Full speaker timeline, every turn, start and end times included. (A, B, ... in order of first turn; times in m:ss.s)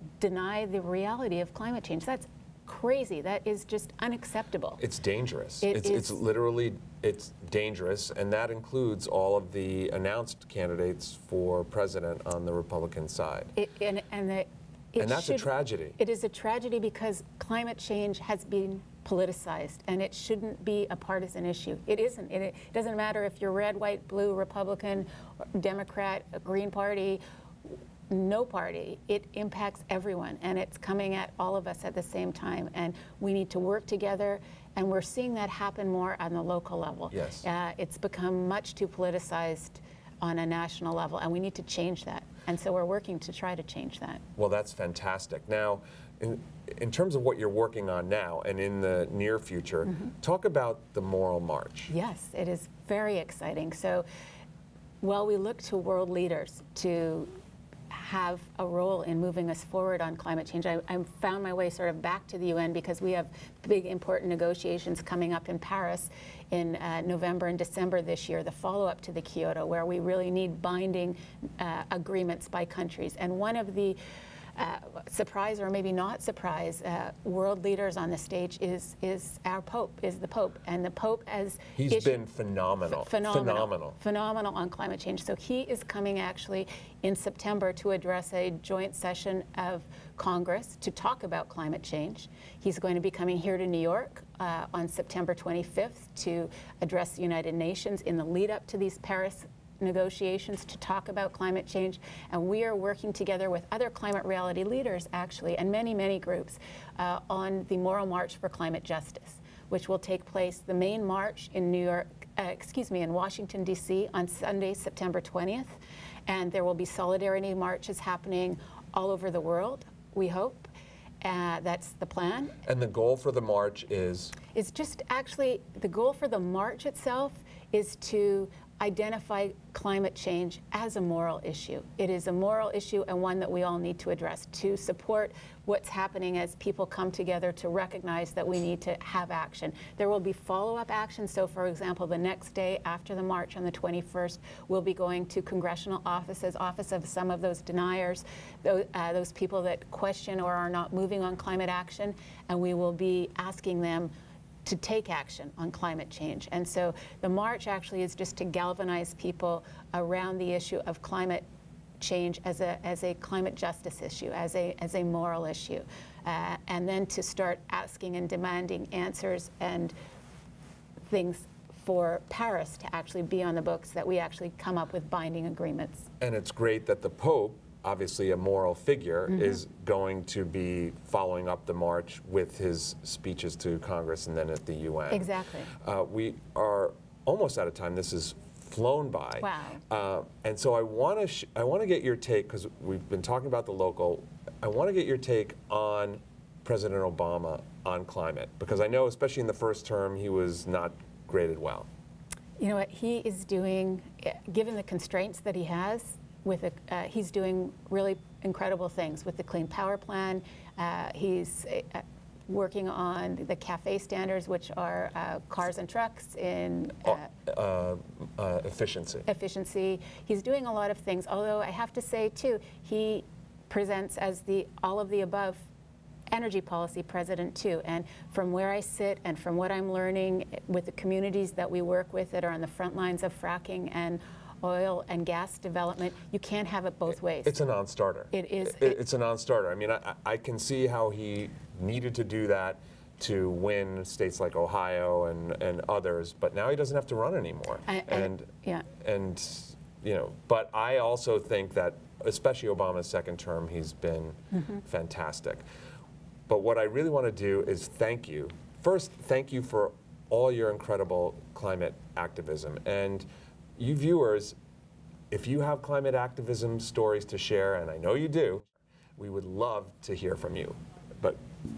0:00.2-0:04.8 A
0:04.8-0:13.5 B
0:05.6-0:06.2 A
0:13.6-0:27.2 A
0:15.0-0:16.0 B
0:28.1-0:44.2 A
0:37.1-0:37.5 B
0:44.4-0:51.9 B
0:51.9-0:54.1 A
0:55.0-0:57.3 A
0:57.9-1:14.0 A
1:14.6-1:22.2 A
1:21.8-1:24.0 B
1:22.9-2:00.7 A
2:01.2-2:02.6 A
2:02.6-2:04.4 B
2:04.5-2:34.1 A
2:34.6-2:41.4 A
2:42.0-2:49.9 A
2:51.1-2:56.1 A
2:56.2-3:21.9 B
2:59.3-2:59.6 A
3:05.1-3:05.7 A
3:09.4-3:09.8 A
3:22.6-3:37.3 A
3:37.0-3:39.3 B
3:39.3-3:45.7 A
3:46.3-3:57.6 A
3:57.4-4:15.6 B
3:58.3-3:59.0 A
4:07.9-4:08.9 A
4:14.5-4:14.8 A
4:16.5-4:24.6 B
4:25.3-4:31.4 B